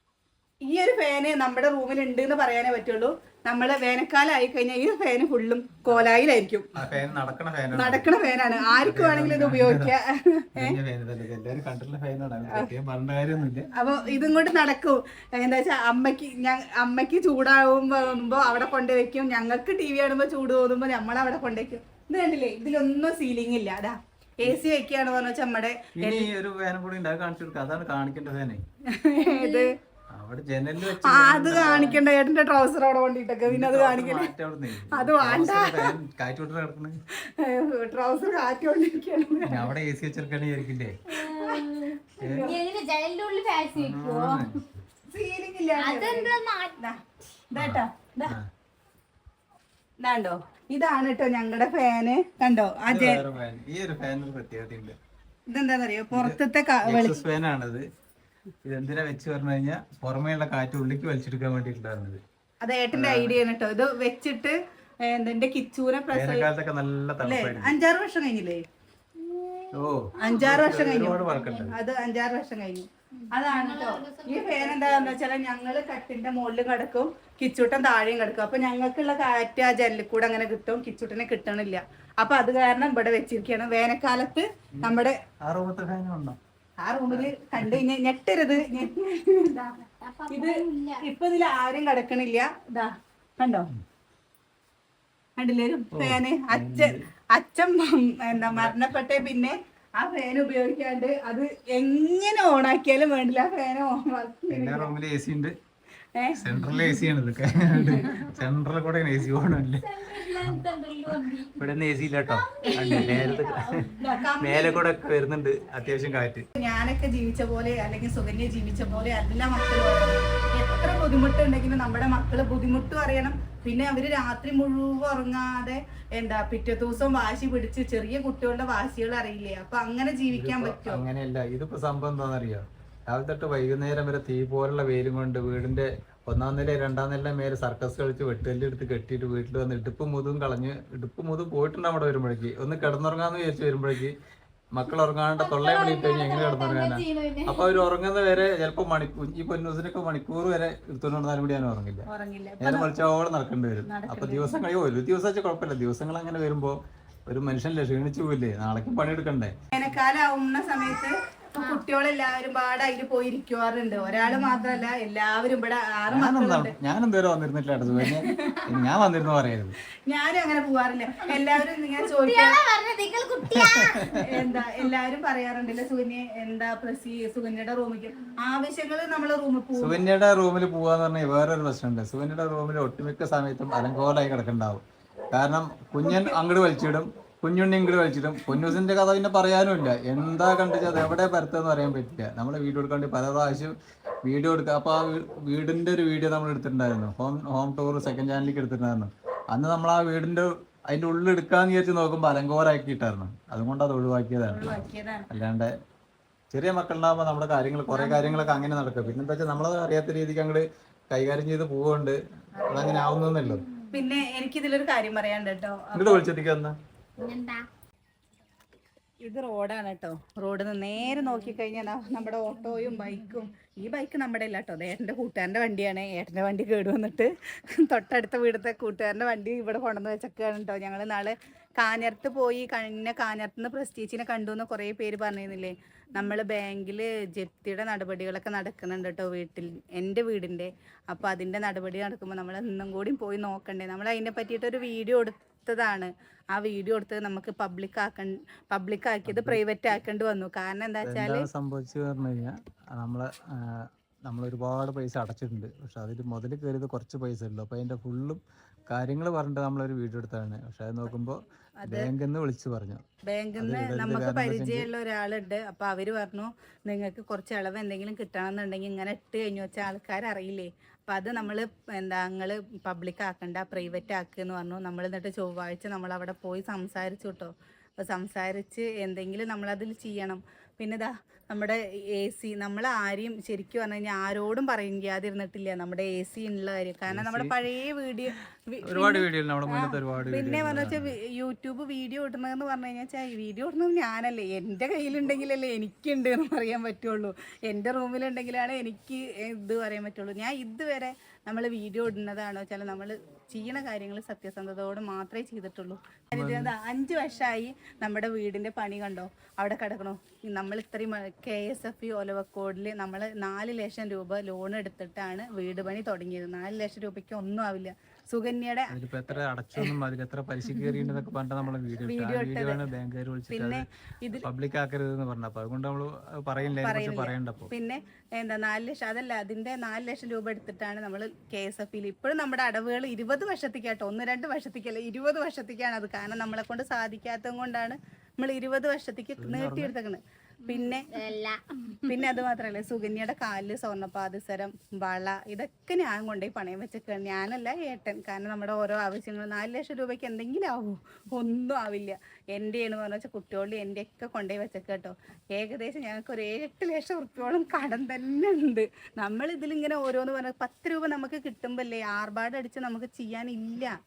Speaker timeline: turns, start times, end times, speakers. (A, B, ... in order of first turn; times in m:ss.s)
0:00.6-0:06.7 A
0:06.8-0:08.1 B
0:07.7-0:10.8 A
0:08.8-0:09.9 B
0:10.6-0:13.7 B
0:13.7-0:26.3 A
0:26.0-0:28.6 B
0:28.9-0:29.7 A
0:29.2-0:29.7 C
0:30.1-0:32.0 B
0:31.0-0:34.3 A
0:33.5-0:37.0 B
0:34.9-0:35.9 A
0:37.2-0:39.7 A
0:39.4-0:41.0 B
0:41.1-0:44.6 C
0:41.1-0:41.6 A
0:42.2-0:42.5 B
0:42.2-0:42.6 A
0:43.7-0:44.8 B
0:45.1-0:48.4 A
0:45.8-0:46.8 C
0:47.6-0:48.4 B
0:50.0-0:53.2 A
0:52.9-0:55.0 B
0:55.5-0:57.2 A
0:56.1-0:57.9 B
0:58.6-1:02.2 B
1:02.6-1:06.5 A
1:02.9-1:03.4 B
1:06.1-1:07.7 B
1:07.2-1:08.6 A
1:09.2-1:11.8 C
1:09.7-1:11.8 B
1:10.2-1:25.2 A
1:13.1-1:15.2 C
1:24.8-1:26.4 B
1:26.8-1:33.7 A
1:27.1-1:27.8 B
1:30.0-1:31.0 C
1:35.4-1:44.9 A
1:35.9-1:37.0 B
1:38.4-1:38.8 B
1:44.5-1:45.6 B
1:46.2-1:46.8 A
1:46.4-1:49.8 B
1:47.8-1:48.2 A
1:49.8-1:51.7 C
1:50.4-1:53.9 B
1:52.2-1:54.2 C
1:52.6-1:53.3 A
1:54.0-1:54.9 A
1:54.4-1:56.4 B
1:56.5-2:11.0 A
2:10.3-2:24.2 B
2:24.7-2:32.0 B
2:25.4-2:27.8 C
2:32.1-2:32.9 A
2:32.6-2:39.6 B
2:33.8-2:34.6 A
2:39.7-2:46.7 A
2:46.1-2:49.8 B
2:48.0-2:48.9 A
2:50.1-2:52.6 A
2:52.0-2:54.2 C
2:53.4-2:54.4 B
2:54.1-2:59.9 A
2:59.8-3:13.7 B
3:06.0-3:06.3 A
3:14.2-3:24.7 B
3:24.5-3:25.3 A
3:25.3-3:25.7 B
3:26.5-3:33.6 B
3:27.9-3:28.6 C
3:32.6-3:33.1 A
3:33.4-3:34.1 C
3:33.9-3:36.2 A
3:35.9-3:36.8 B
3:37.2-3:37.6 C
3:39.2-4:11.5 A
4:09.2-4:09.6 B
4:11.0-4:23.0 B
4:21.8-4:22.1 A
4:23.3-5:19.0 A
4:23.6-4:24.9 B
4:47.1-4:47.5 B
4:48.8-4:51.1 B
5:06.3-5:06.7 B
5:18.9-5:27.7 B
5:22.0-5:22.8 A
5:23.5-5:24.5 A
5:26.8-5:41.1 A
5:39.4-5:39.9 B
5:40.7-5:42.1 C
5:42.0-6:03.9 A